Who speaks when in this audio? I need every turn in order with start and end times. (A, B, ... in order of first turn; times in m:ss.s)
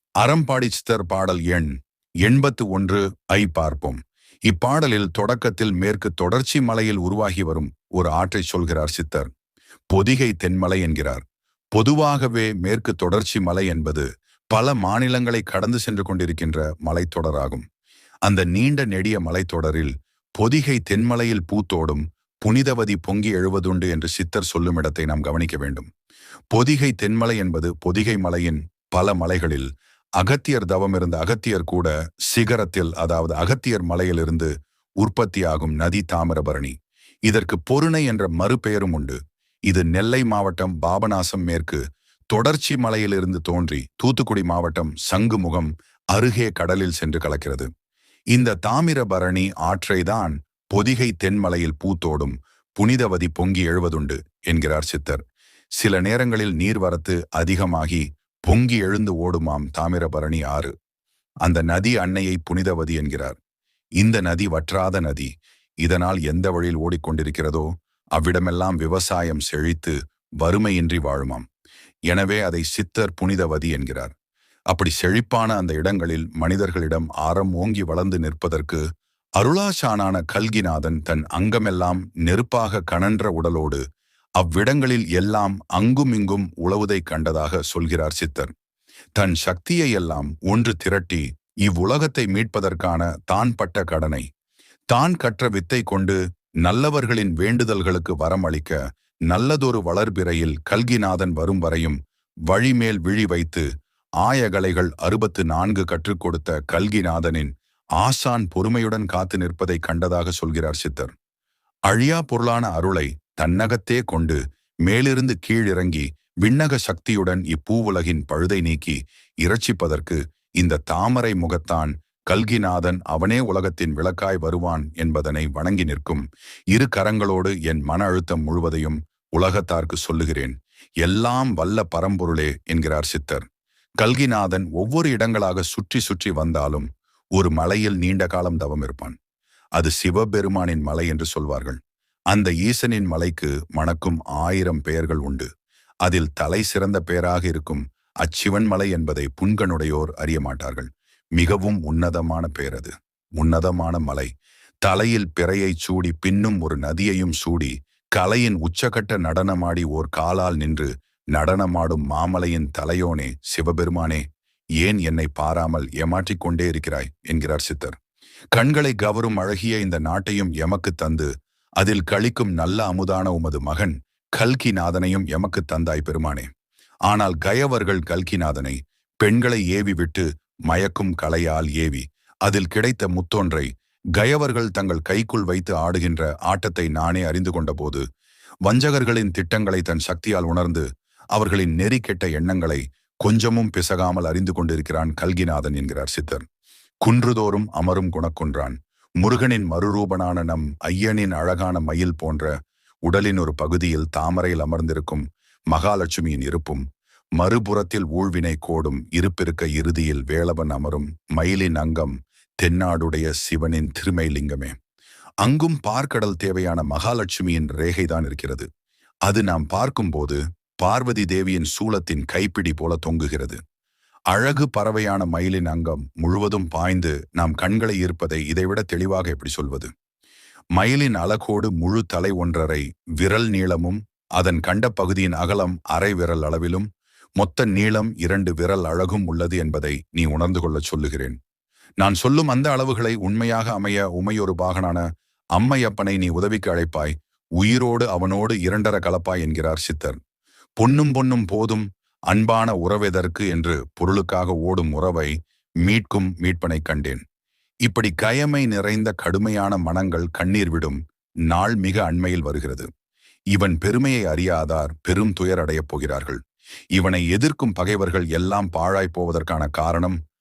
0:00.2-0:01.7 A
0:02.2-0:09.3 A
0:09.9-0:11.2 A
0:11.7-0:17.6 A
0:18.2-0:25.9 A
0:26.5-0:29.7 A
0:30.2-0:36.7 A
0:37.3-0:39.2 A
0:39.7-0:41.8 A
0:42.3-0:47.7 A
0:48.3-0:55.2 A
0:55.8-1:00.7 A
1:01.4-1:03.4 A
1:04.0-1:05.3 A
1:05.8-1:11.4 A
1:12.1-1:14.1 A
1:14.7-1:18.8 A
1:19.4-1:23.8 A
1:24.4-1:28.5 A
1:29.2-1:34.2 A
1:34.9-1:38.8 A
1:39.3-1:42.0 A
1:42.5-1:43.6 A
1:44.2-1:51.1 A
1:51.9-2:13.4 A
2:14.0-2:19.2 A
2:19.8-2:21.8 A
2:22.3-2:25.5 A
2:26.0-2:34.3 A
2:34.8-2:44.2 A
2:44.8-2:48.0 A
2:48.5-2:51.3 A
2:51.8-2:56.5 A
2:57.1-3:08.0 A
3:08.6-3:16.4 A
3:17.0-3:22.5 A
3:23.0-3:26.8 A
3:27.4-3:34.7 A
3:35.4-3:38.6 A
3:39.3-3:43.6 A
3:44.3-3:49.9 A
3:50.8-3:56.9 A
3:57.4-4:01.4 A
4:02.0-4:10.2 A
4:10.8-4:15.3 A
4:15.8-4:17.2 A
4:17.8-4:21.0 A
4:21.5-4:22.9 A
4:23.5-4:26.4 A
4:26.9-4:30.2 A